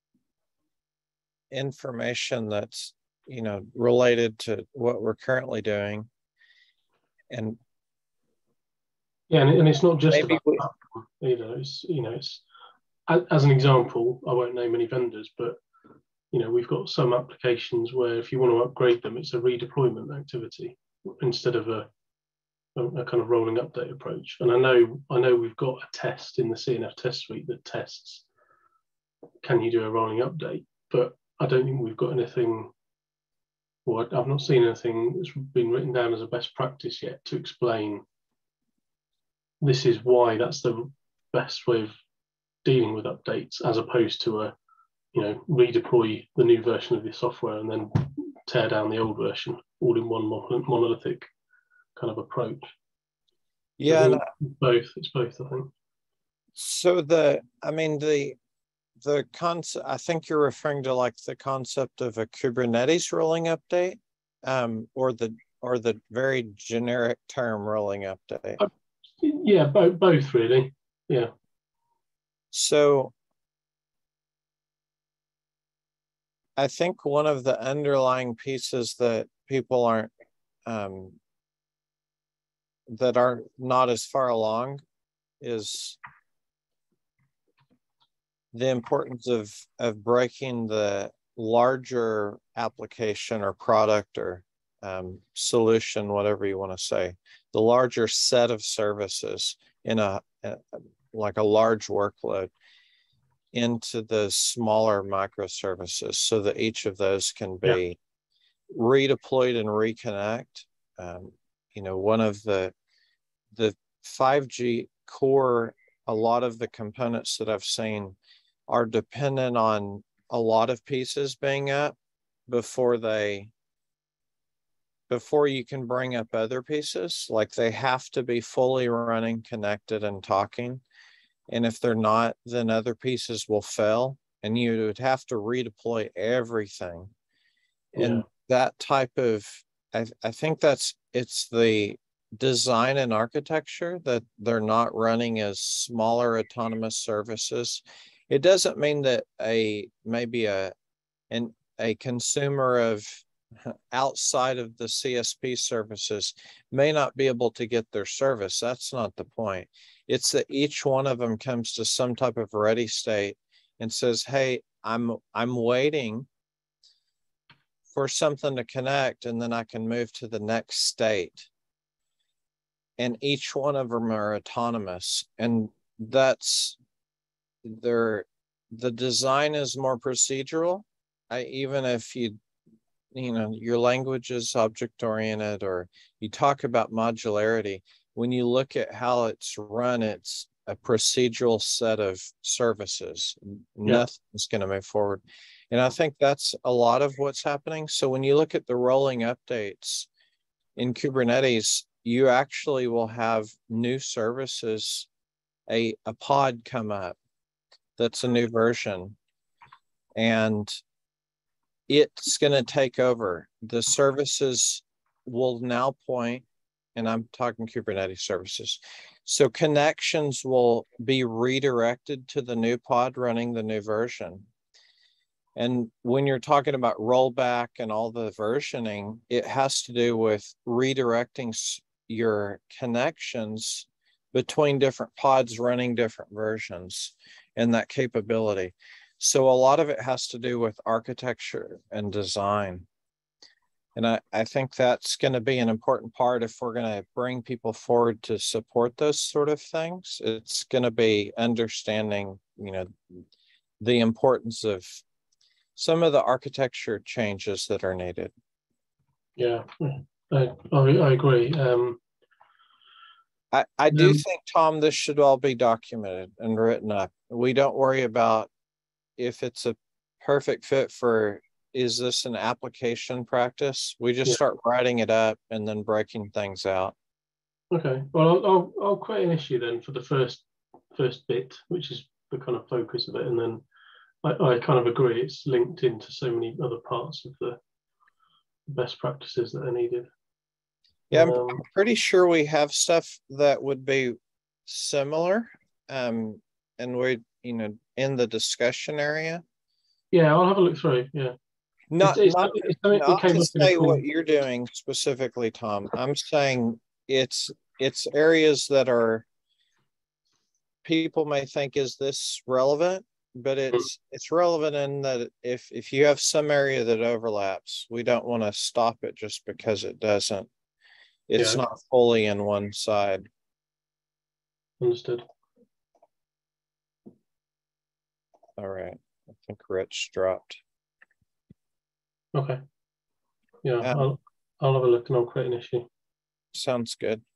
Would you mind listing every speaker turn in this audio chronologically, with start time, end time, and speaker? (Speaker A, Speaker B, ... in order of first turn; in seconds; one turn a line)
Speaker A: 1.5-6.1
Speaker A: 7.3-7.6
Speaker B: 9.3-12.4
Speaker A: 10.1-10.7
Speaker B: 13.1-15.6
Speaker B: 16.3-21.9
Speaker B: 22.8-28.2
Speaker B: 29.4-32.7
Speaker B: 33.8-38.0
Speaker B: 39.6-41.9
Speaker B: 42.6-44.5
Speaker B: 45.1-51.3
Speaker B: 52.0-52.7
Speaker A: 53.8-54.2
Speaker B: 53.9-55.7
Speaker A: 56.5-58.4
Speaker A: 59.0-68.6
Speaker B: 69.2-71.3
Speaker A: 72.5-73.1
Speaker A: 76.6-80.1
Speaker A: 80.7-81.2
Speaker A: 82.9-84.8
Speaker A: 85.4-86.0
Speaker A: 88.5-102.5
Speaker A: 103.5-108.0
Speaker A: 108.7-112.7
Speaker A: 113.5-118.2
Speaker A: 118.7-122.0
Speaker A: 122.5-123.5
Speaker A: 125.1-130.8
Speaker A: 131.5-137.1
Speaker A: 137.9-150.7
Speaker B: 138.0-138.2
Speaker A: 151.3-166.3
Speaker A: 167.9-171.5
Speaker A: 173.0-176.8
Speaker A: 177.6-182.4
Speaker A: 183.1-200.1
Speaker A: 200.8-205.1
Speaker A: 205.7-207.2
Speaker A: 208.0-209.2
Speaker A: 210.2-210.8
Speaker A: 211.9-224.5
Speaker A: 225.6-242.9
Speaker A: 243.9-253.2
Speaker A: 253.8-255.0
Speaker A: 255.8-258.3
Speaker B: 259.4-262.0
Speaker A: 263.5-268.5
Speaker B: 263.9-264.2
Speaker A: 269.2-276.9
Speaker B: 277.7-283.6
Speaker B: 284.2-287.6
Speaker B: 288.7-290.1
Speaker A: 291.1-294.1
Speaker B: 291.1-291.6
Speaker A: 294.7-299.4
Speaker B: 300.1-301.4
Speaker A: 301.9-309.2
Speaker B: 302.0-304.0
Speaker A: 310.8-320.5
Speaker A: 321.3-323.3
Speaker B: 321.4-321.6
Speaker B: 324.8-325.2
Speaker A: 328.6-330.6
Speaker B: 332.3-332.6
Speaker B: 333.6-335.9
Speaker A: 336.5-337.2